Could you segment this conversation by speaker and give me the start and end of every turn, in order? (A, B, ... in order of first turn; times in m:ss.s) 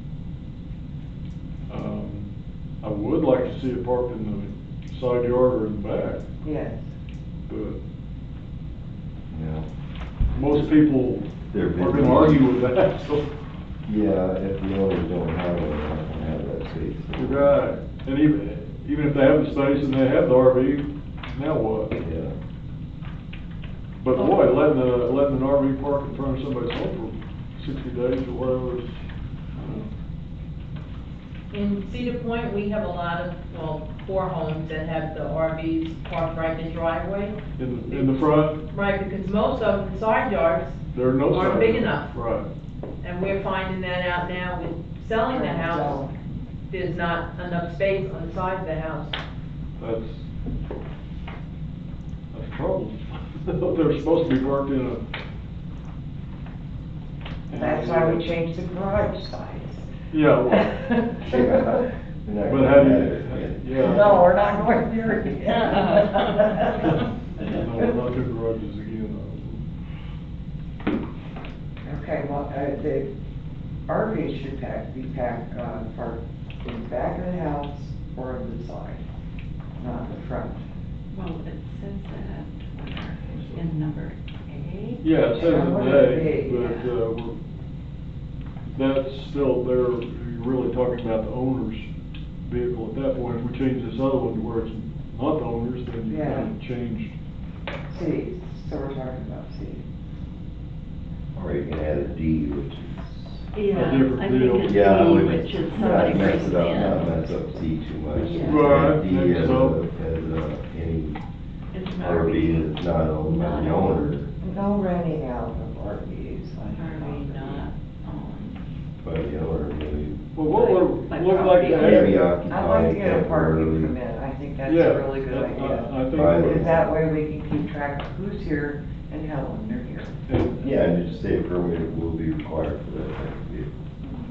0:01.7-0:02.3 A
0:02.8-0:06.2 A
0:06.4-0:06.9 B
0:07.5-0:07.8 A
0:09.3-0:09.7 C
0:10.4-0:13.2 A
0:11.5-0:12.4 C
0:13.9-0:17.6 C
0:17.2-0:21.9 A
0:22.0-0:22.3 C
0:24.0-0:29.0 A
0:29.6-0:29.9 A
0:31.5-0:37.4 D
0:37.6-0:38.6 A
0:38.7-0:42.1 D
0:40.9-0:42.5 A
0:43.0-0:46.0 D
0:45.3-0:46.1 B
0:46.7-0:49.2 D
0:49.8-0:50.2 A
0:52.3-0:55.0 A
0:57.5-0:58.3 A
0:57.5-0:59.9 B
1:00.1-1:00.7 A
1:00.5-1:01.8 B
1:01.3-1:04.2 C
1:02.5-1:04.3 A
1:03.8-1:07.9 B
1:06.8-1:09.6 A
1:11.8-1:13.1 B
1:13.9-1:19.0 B
1:19.8-1:20.6 B
1:21.1-1:25.1 E
1:25.0-1:27.3 A
1:25.2-1:26.6 B
1:26.6-1:27.0 E
1:28.7-1:31.9 A
1:32.4-1:37.1 A
1:36.1-1:36.5 B
1:37.9-1:39.8 B
1:41.4-1:43.5 C
1:43.5-1:47.1 E
1:43.7-1:44.8 A
1:44.6-1:51.2 C
1:48.2-1:48.8 E
1:48.5-1:49.8 A
1:51.7-1:54.1 E
1:52.0-1:54.3 C
1:54.4-1:57.6 B
1:56.7-1:58.6 E
1:59.0-2:00.2 C
2:00.4-2:02.1 A
2:00.4-2:02.2 E
2:01.7-2:04.0 C
2:02.5-2:10.2 B
2:04.6-2:06.8 A
2:06.1-2:06.9 C
2:10.3-2:10.7 A
2:10.6-2:13.7 C